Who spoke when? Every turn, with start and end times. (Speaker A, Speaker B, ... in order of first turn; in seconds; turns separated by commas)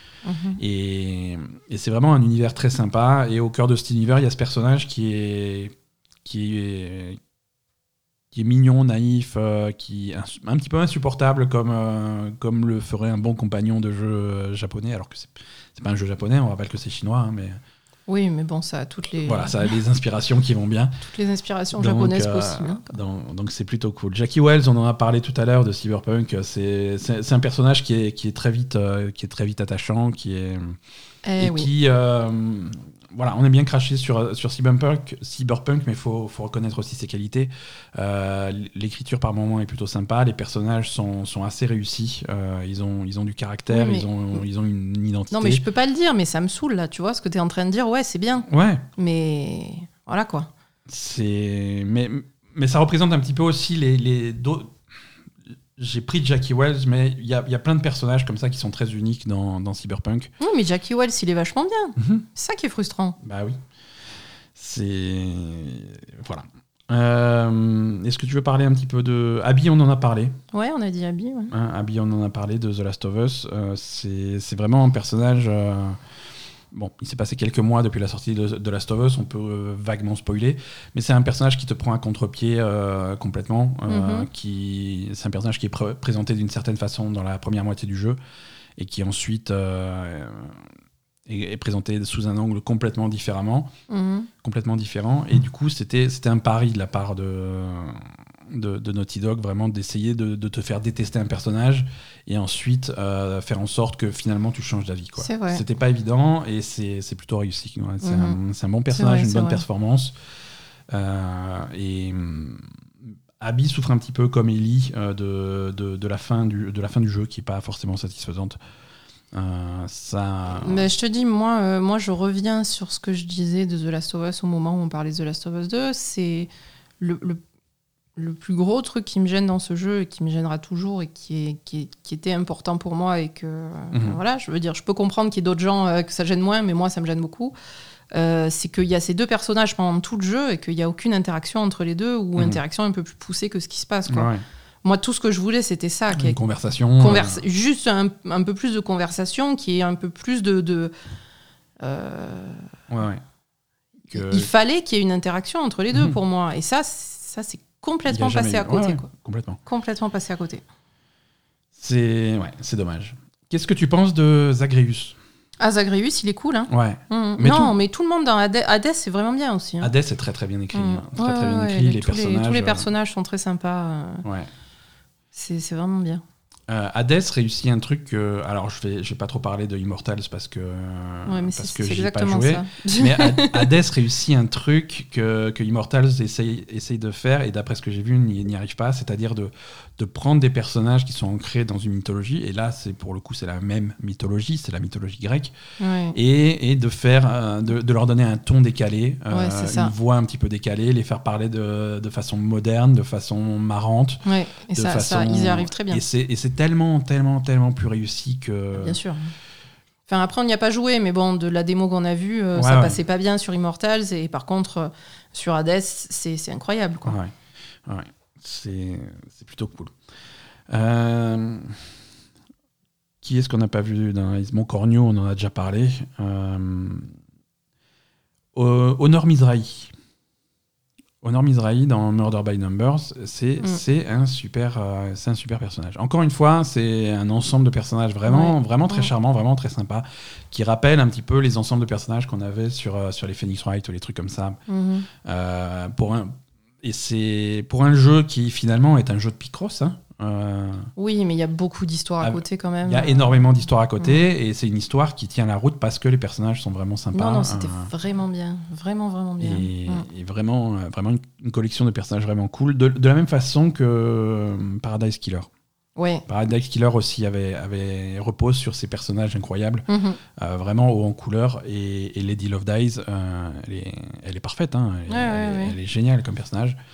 Speaker A: 0.2-0.6, Speaker B: 0.6-5.7, Speaker B: 6.2-7.2, Speaker B: 8.3-17.6, Speaker A: 18.1-19.7, Speaker B: 19.2-21.0, Speaker A: 21.0-22.9, Speaker B: 21.8-30.8, Speaker A: 31.2-31.7, Speaker B: 31.4-45.6, Speaker A: 43.7-44.4, Speaker A: 45.3-50.5, Speaker B: 48.5-48.9, Speaker B: 50.9-54.8, Speaker B: 55.8-60.3, Speaker A: 60.4-63.2, Speaker B: 62.0-62.2, Speaker B: 63.2-63.6, Speaker B: 64.6-70.4, Speaker A: 70.5-71.5, Speaker B: 71.5-76.0, Speaker B: 76.7-88.2, Speaker A: 83.9-84.3, Speaker B: 88.8-90.6, Speaker B: 91.3-93.7, Speaker A: 93.9-94.3, Speaker B: 94.4-110.1, Speaker A: 105.2-105.6, Speaker A: 108.0-108.4, Speaker A: 108.9-109.6, Speaker B: 110.9-112.7, Speaker B: 113.4-118.6, Speaker B: 119.3-120.9, Speaker A: 120.5-127.4, Speaker A: 128.2-137.6, Speaker B: 133.9-134.2, Speaker A: 138.1-144.3, Speaker B: 144.1-144.4, Speaker A: 144.8-146.4, Speaker B: 146.1-147.4, Speaker A: 147.0-150.9, Speaker A: 151.8-152.7, Speaker B: 152.9-153.2, Speaker A: 154.1-159.1, Speaker B: 154.1-154.5, Speaker B: 158.1-159.6, Speaker A: 159.7-160.6, Speaker B: 161.8-165.2, Speaker A: 165.6-169.9, Speaker B: 166.7-167.8, Speaker B: 169.8-172.9, Speaker A: 170.7-174.3, Speaker A: 175.3-176.2, Speaker B: 176.7-195.5, Speaker A: 181.3-183.7, Speaker A: 195.8-196.2, Speaker B: 196.1-204.2, Speaker A: 199.3-199.9, Speaker A: 204.3-206.0, Speaker B: 204.7-209.0, Speaker A: 208.8-209.3, Speaker A: 210.1-217.2, Speaker B: 212.6-213.0, Speaker B: 217.1-217.3, Speaker B: 217.8-219.9, Speaker B: 220.7-221.8, Speaker B: 223.2-227.2, Speaker B: 228.5-229.9, Speaker B: 231.2-244.6, Speaker A: 238.3-239.1, Speaker A: 244.7-245.1, Speaker B: 245.1-250.9, Speaker A: 251.0-253.4, Speaker B: 252.2-257.9, Speaker A: 257.1-260.1, Speaker B: 259.4-265.5, Speaker A: 266.0-266.2, Speaker B: 266.3-276.8, Speaker A: 269.9-270.2, Speaker A: 275.1-275.8